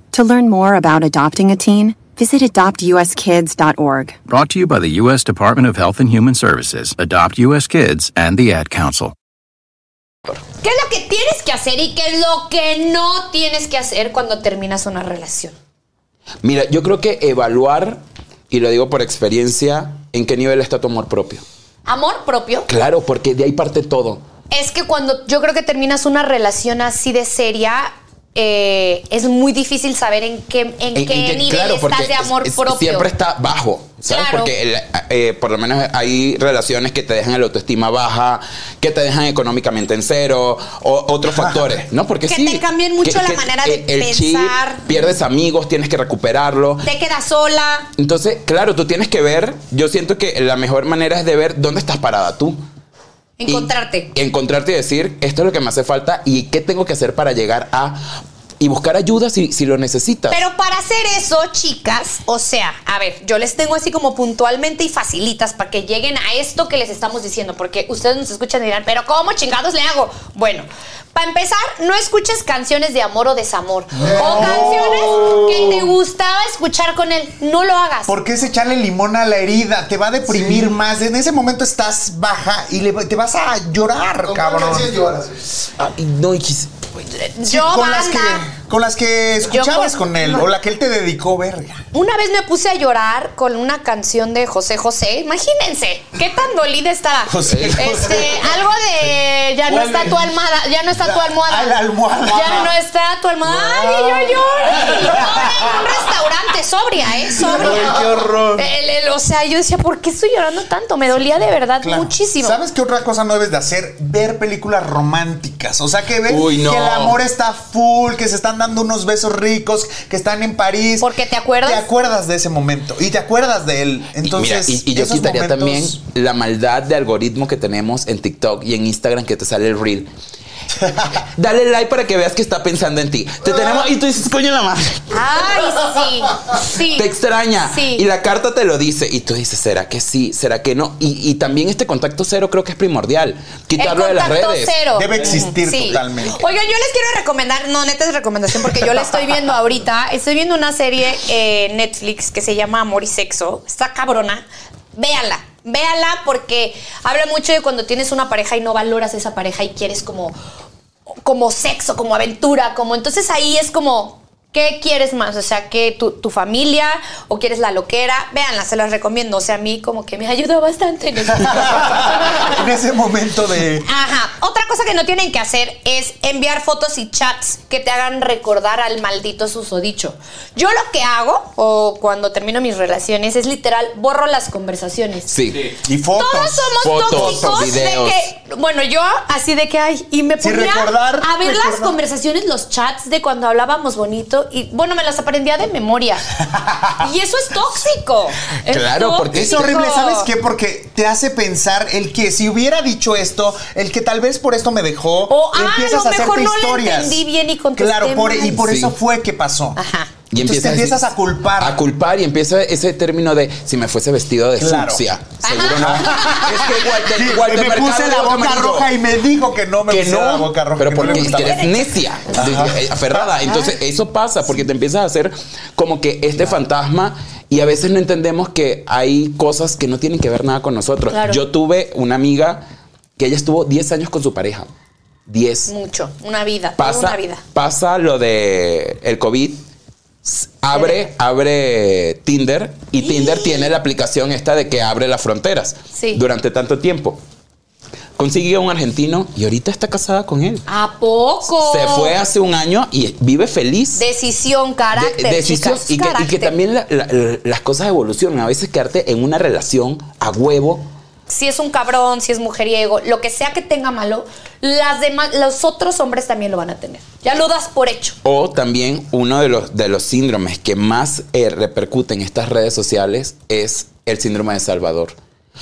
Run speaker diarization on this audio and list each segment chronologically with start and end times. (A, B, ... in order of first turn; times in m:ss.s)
0:00.1-0:04.2 A
0:04.3-0:09.2 B
0:10.6-0:15.5 C
0:16.4-0:21.4 D
0:21.9-0:22.7 C
0:22.7-0:24.2 D
0:24.5-0:33.1 C
0:31.0-0:46.9 D
0:34.1-0:34.5 C
0:41.3-0:41.7 E
0:42.3-0:45.1 C
0:46.8-0:47.9 C
0:48.0-0:52.6 D
0:53.4-0:54.1 C
0:53.5-0:58.0 D
0:58.6-1:00.4 D
1:00.3-1:18.2 C
1:14.0-1:15.8 E
1:14.0-1:15.3 F
1:18.1-1:24.9 E
1:24.2-1:25.5 F
1:25.6-1:27.0 D
1:27.2-1:28.5 C
1:27.4-1:31.8 E
1:29.5-1:30.4 C
1:31.9-1:41.8 C
1:37.3-1:38.4 E
1:37.4-1:38.2 D
1:41.0-1:42.7 E
1:42.3-1:48.0 C
1:43.4-1:45.7 E
1:47.4-1:48.6 E
1:48.6-1:52.6 C
1:51.8-2:01.1 E
1:56.3-1:57.2 D
2:01.0-2:01.8 C
2:01.6-2:06.0 E
2:04.2-2:10.1 D
2:11.1-2:15.2 D
2:15.1-2:17.1 C
2:16.7-2:24.8 D
2:17.6-2:18.0 C
2:23.8-2:40.4 C
2:24.9-2:26.4 E
2:41.2-2:52.5 C
2:51.3-2:53.9 E
2:53.8-3:05.3 C
3:05.3-3:05.8 D
3:05.8-3:07.7 E
3:06.2-3:16.2 C
3:06.8-3:08.3 D
3:10.4-3:12.0 E
3:16.5-3:17.0 E
3:17.0-3:20.3 C
3:18.7-3:19.8 D
3:19.3-3:27.2 E
3:25.3-3:28.6 C
3:27.8-3:29.8 E
3:28.7-3:28.9 D
3:29.8-3:30.1 C
3:30.3-3:38.9 D
3:30.3-3:31.8 E
3:34.6-3:35.0 E
3:35.4-3:36.6 C
3:35.7-3:41.7 E
3:39.9-3:52.6 D
3:41.0-3:41.9 C
3:42.3-3:43.2 E
3:51.1-3:51.4 C
3:53.2-3:54.7 D
3:55.3-3:55.7 D
3:55.7-3:57.4 C
3:56.8-3:59.6 D
4:00.2-4:07.2 D
4:00.7-4:01.0 C
4:03.0-4:03.7 C
4:05.9-4:06.2 C
4:08.2-4:10.7 D
4:10.7-4:12.2 C
4:11.5-4:14.0 D
4:14.0-4:16.5 C
4:15.0-4:20.9 D
4:21.3-4:28.2 C
4:28.2-4:35.2 D